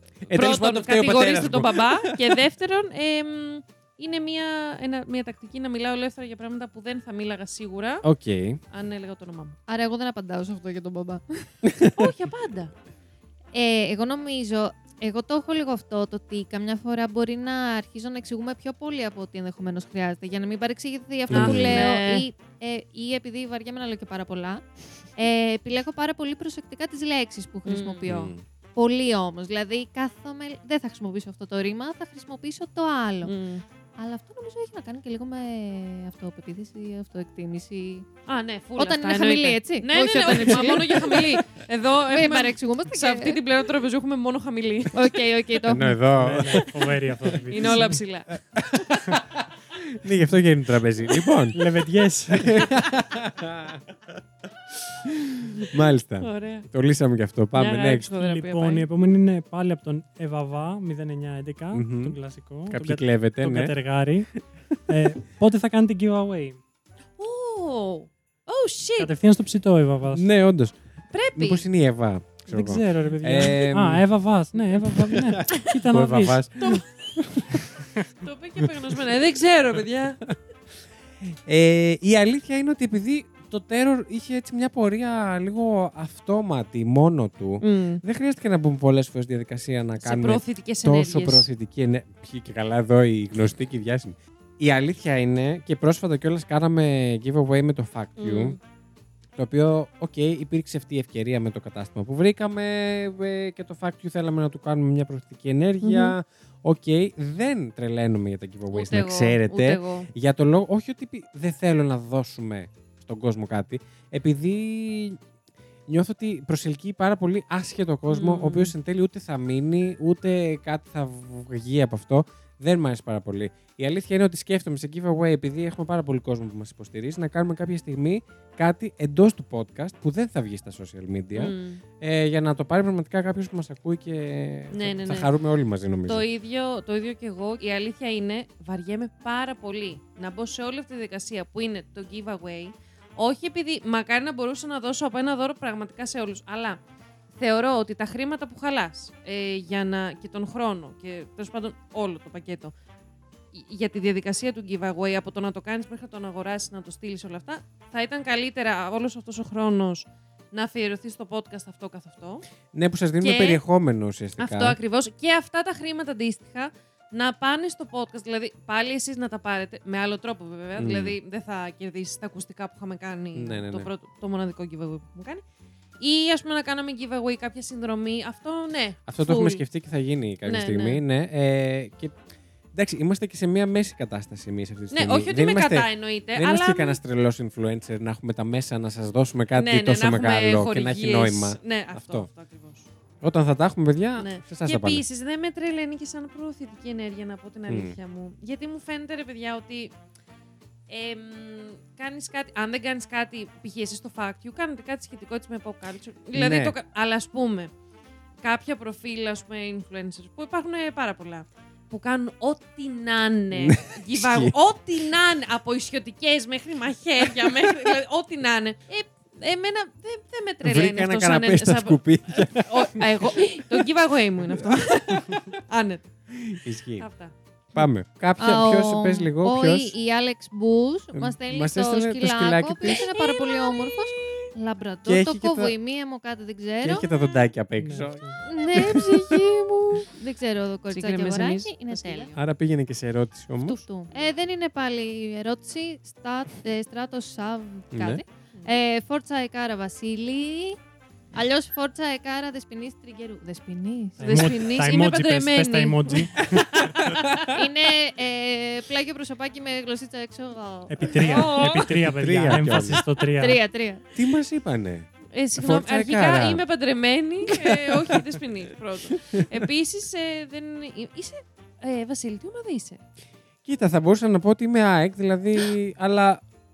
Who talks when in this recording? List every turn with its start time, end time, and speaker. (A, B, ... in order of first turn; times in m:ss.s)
0:00.2-0:02.4 A
0:00.3-0:08.1 B
0:08.0-0:08.6 A
0:08.7-0:09.6 B
0:09.7-0:11.6 C
0:11.6-0:12.1 A
0:11.9-0:12.7 B
0:13.5-0:24.6 C
0:21.3-0:21.9 A
0:21.3-0:22.3 B
0:25.2-0:28.1 C
0:27.6-0:28.3 B
0:28.1-0:28.4 A
0:28.8-0:33.3 C
0:33.2-0:33.6 B
0:34.0-0:38.1 C
0:38.3-0:45.2 B
0:38.8-0:41.4 C
0:42.1-0:43.4 C
0:44.9-0:46.0 C
0:45.7-0:46.7 A
0:46.1-0:48.0 D
0:47.5-0:48.3 B
0:47.6-0:47.9 A
0:48.5-0:51.6 A
0:51.5-0:52.7 D
0:52.3-0:53.8 A
0:54.9-0:58.1 A
0:56.2-0:56.7 B
0:57.6-0:58.9 B
0:58.2-1:04.3 D
1:01.7-1:02.2 A
1:02.7-1:03.7 A
1:04.9-1:06.6 D
1:07.2-1:09.1 B
1:09.0-1:10.3 D
1:10.1-1:10.8 A
1:11.1-1:11.6 B
1:11.4-1:14.1 A
1:12.5-1:16.4 D
1:14.7-1:17.7 A
1:18.2-1:20.2 B
1:21.3-1:38.6 A
1:27.6-1:28.0 B
1:30.0-1:31.5 B
1:38.2-1:38.6 B
1:39.4-1:55.2 A
1:45.8-1:46.2 B
1:48.7-1:50.1 B
1:55.9-2:16.3 A
1:58.1-1:58.7 B
2:11.4-2:11.8 B
2:14.7-2:15.3 B
2:16.1-2:26.8 B
2:27.4-2:32.7 B
2:33.5-2:42.4 B
2:42.7-2:44.8 A
2:43.2-2:43.6 B
2:44.4-2:55.4 B
2:50.8-2:51.2 A
2:53.3-2:53.9 A
2:56.0-2:59.6 B
2:59.1-3:02.2 A
3:00.4-3:01.0 B
3:02.7-3:12.3 A
3:04.9-3:07.0 B
3:09.6-3:12.9 B
3:13.2-3:15.0 A
3:14.2-3:19.9 B
3:17.7-3:18.0 A
3:20.9-3:27.7 B
3:26.3-3:26.8 A
3:28.4-3:47.3 B
3:33.5-3:34.6 A
3:40.6-3:43.9 A
3:44.5-3:45.4 A
3:46.4-3:47.1 A
3:47.8-3:50.0 A
3:48.4-3:57.1 C
3:51.2-3:53.1 A
3:52.9-3:54.5 B
3:55.0-3:55.8 A
3:56.8-3:59.2 A
3:56.9-3:57.3 B
3:57.8-3:58.4 D
3:58.5-3:59.1 C
3:58.5-4:00.1 B
4:00.2-4:02.3 C
4:00.9-4:02.4 B
4:02.4-4:03.8 A
4:03.6-4:10.8 C
4:07.9-4:08.2 A
4:11.3-4:14.5 C
4:14.2-4:16.9 D
4:14.2-4:17.5 B
4:17.5-4:21.6 C
4:20.9-4:23.6 D
4:21.2-4:21.9 B
4:21.9-4:23.0 A
4:23.4-4:24.1 C
4:24.2-4:26.6 A
4:25.3-4:33.0 B
4:27.5-4:28.2 A
4:29.2-4:29.5 A
4:33.6-4:36.4 A